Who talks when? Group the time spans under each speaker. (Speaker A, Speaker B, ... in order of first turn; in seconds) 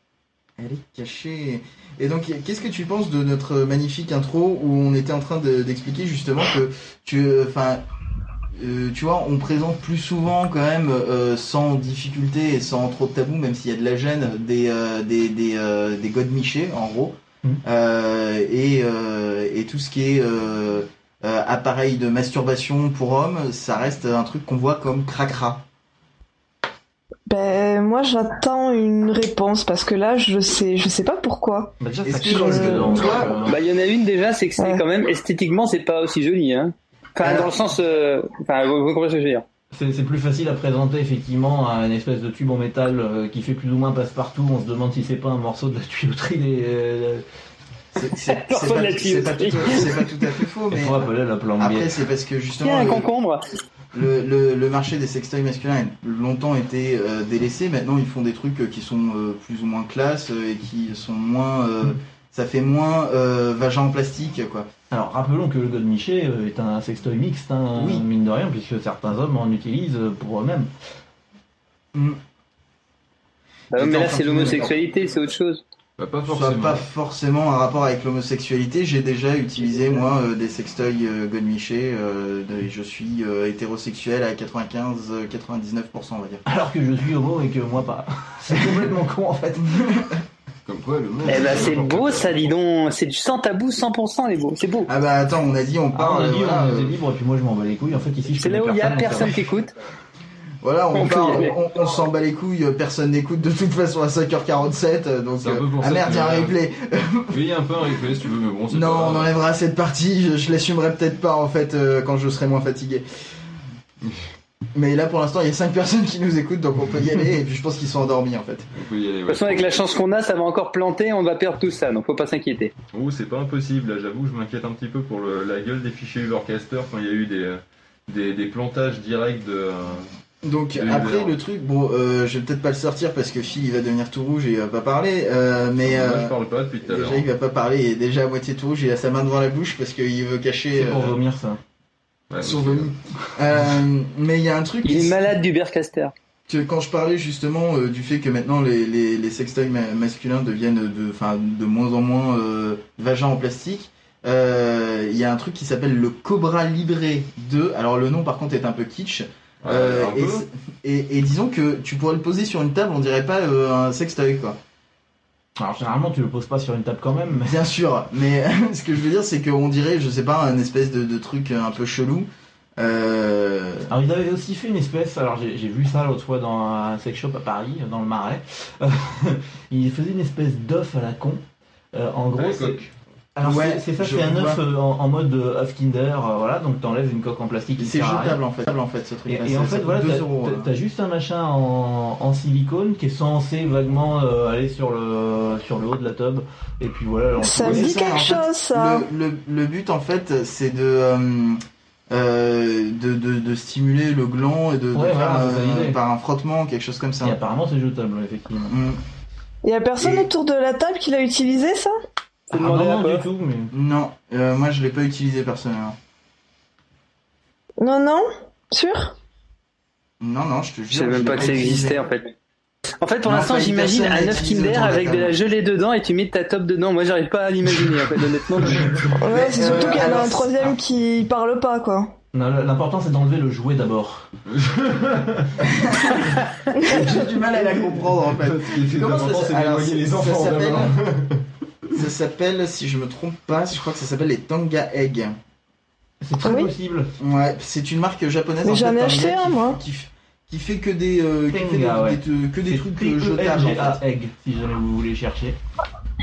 Speaker A: 0.6-7.8, 8.6-25.6, 32.0-33.5, 37.2-37.5, 47.9-51.0, 51.6-53.0, 53.9-64.7, 67.7-68.0, 71.9-72.2, 73.7-74.7, 76.3-86.4, 89.6-90.2, 94.9-97.0, 100.6-107.4, 108.7-113.0, 114.7-118.7, 130.4-141.2, 142.4-145.2, 146.5-164.6, 167.4-173.9, 183.4-184.6, 187.8-190.7, 197.6-201.6, 202.1-207.4, 208.7-209.0, 210.0-210.3, 213.7-215.9, 220.2-222.0, 223.2-225.3, 229.2-230.7, 235.6-241.0, 241.9-245.3, 247.2-254.0
Speaker B: 27.3-33.0, 197.4-199.1, 209.6-211.9, 217.8-219.1, 229.2-232.1, 236.7-237.0, 246.4-246.7, 248.6-249.8
Speaker C: 31.8-33.6, 39.7-47.2, 50.7-51.9, 64.9-70.7, 86.5-89.8, 95.9-99.4, 140.7-141.6, 165.6-167.6, 173.9-181.4, 181.9-182.8, 183.3-188.4, 189.3-198.0, 204.9-206.0, 207.2-208.7, 212.5-213.7, 232.3-234.3, 246.2-247.1, 251.5-255.6
Speaker D: 33.5-39.4, 48.2-50.1, 52.6-53.4, 73.7-75.6, 91.2-94.9, 98.4-99.7, 100.9-101.5, 119.3-122.7, 144.8-146.1, 212.5-213.2, 220.9-222.3, 222.9-229.1
Speaker E: 76.0-76.8, 90.7-92.5, 105.4-106.5, 107.3-109.3, 118.8-119.7, 122.9-130.1, 130.7-131.3, 135.8-137.2, 142.3-142.9, 159.6-160.4, 182.3-182.9, 234.5-235.5, 237.5-241.4